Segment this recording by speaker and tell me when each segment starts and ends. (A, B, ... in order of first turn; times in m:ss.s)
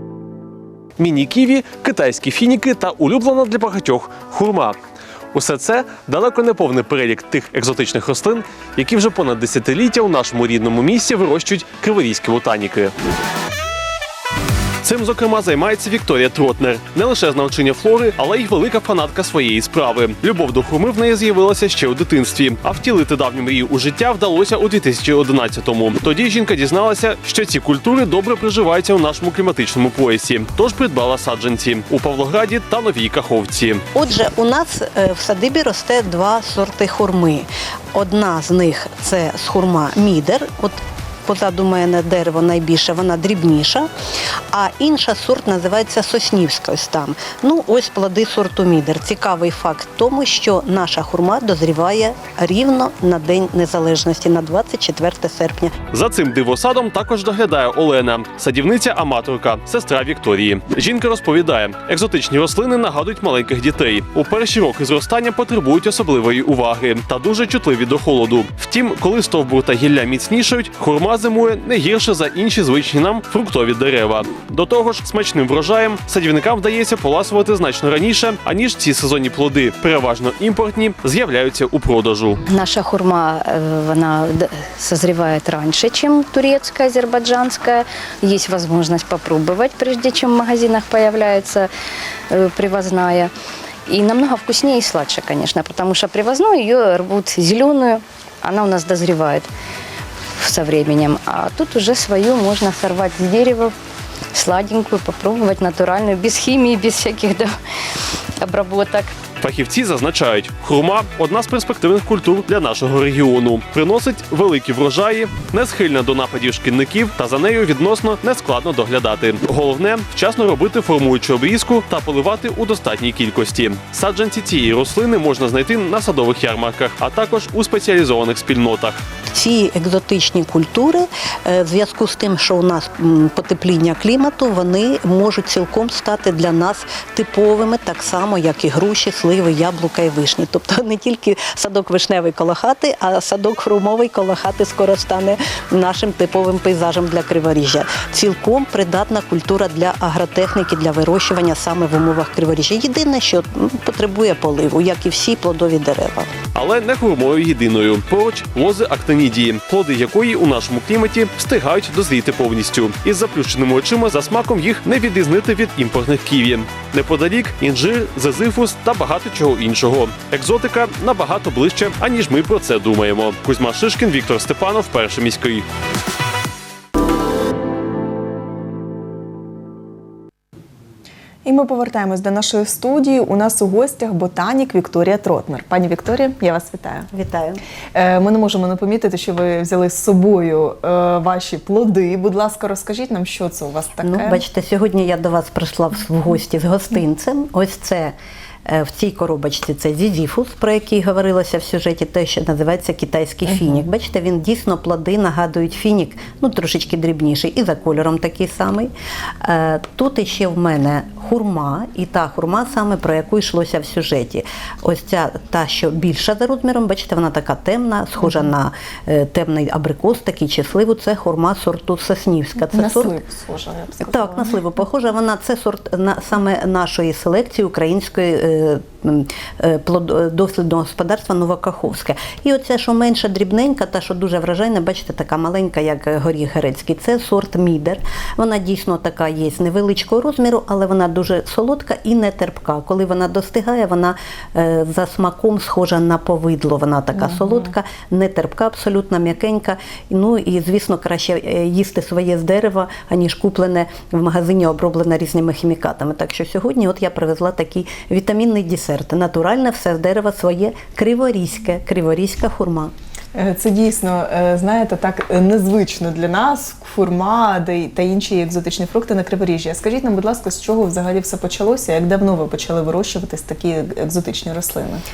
0:01.0-0:04.8 A
0:05.3-0:12.9 A
0:14.8-0:33.8 A
0:34.0-0:43.9 B
0:44.5-0:55.8 B
0:55.9-1:22.4 A
1:22.5-1:31.7 C
1:32.3-1:33.3 C
1:33.9-1:39.5 C
1:40.4-1:43.8 C
1:44.3-1:47.5 C
1:48.4-1:49.1 C
1:49.4-2:09.0 A
2:09.3-2:36.3 B
2:36.5-2:55.7 A
3:01.4-3:07.1 D
3:07.1-3:07.6 B
3:07.9-3:14.4 D
3:14.0-3:18.2 B
3:18.7-3:28.9 B
3:29.4-3:43.2 B
3:42.7-3:44.5 D
3:44.0-4:22.9 B
4:23.3-4:35.0 D